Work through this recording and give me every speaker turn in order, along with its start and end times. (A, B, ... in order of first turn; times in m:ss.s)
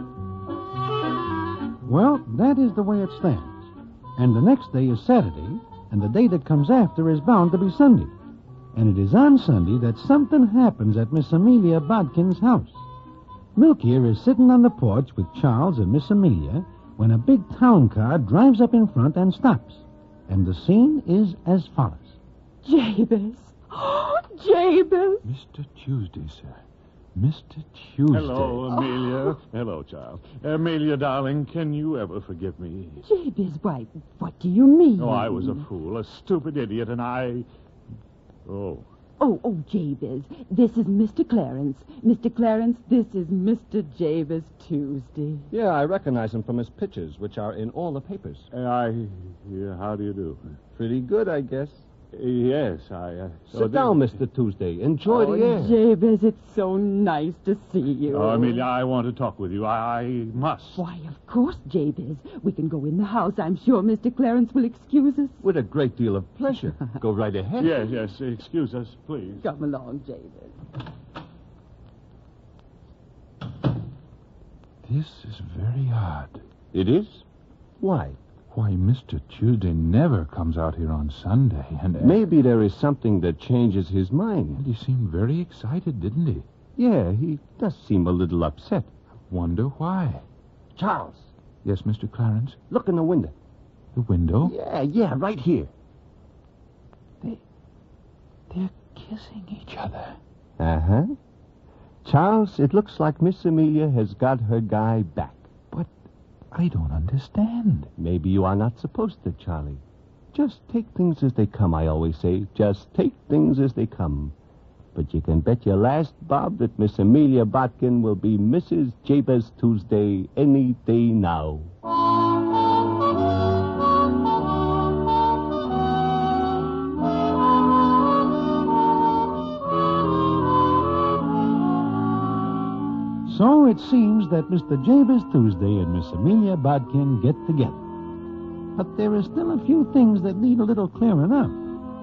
0:01.8-0:03.6 A
0:04.2-0:08.1 A
0:08.7-0:12.8 A
0:13.6-0:22.2 A
0:22.6-0:25.3 B
0:25.2-0:26.6 C
0:27.1-0:28.7 C
0:28.1-0:33.0 D
0:28.8-0:29.3 B
0:33.0-0:35.6 B
0:35.0-0:37.4 D
0:38.4-0:38.9 D
0:39.2-0:45.5 B
0:45.5-0:48.5 E
0:48.5-0:50.4 D
0:50.7-0:51.8 E
0:52.1-0:54.1 D
0:53.5-0:55.8 E
0:55.0-0:58.6 B
0:58.1-1:00.8 D
1:00.7-1:05.4 B
1:05.4-1:07.8 E
1:07.6-1:09.4 D
1:09.4-1:10.6 B
1:14.8-1:16.4 C
1:16.7-1:17.2 E
1:17.8-1:18.2 E
1:18.5-1:22.2 C
1:22.0-1:24.6 E
1:24.6-1:26.4 C
1:26.8-1:28.9 E
1:29.3-1:30.2 C
1:30.7-1:31.3 E
1:31.6-1:32.6 C
1:32.7-1:33.3 E
1:33.9-1:34.5 C
1:34.4-1:35.7 E
1:38.5-1:40.2 C
1:40.6-1:41.1 E
1:42.0-1:45.5 E
1:46.5-1:47.9 C
1:48.0-1:49.8 E
1:50.3-1:54.3 E
1:54.9-2:01.7 E
2:13.2-2:17.8 A
2:18.8-2:21.6 A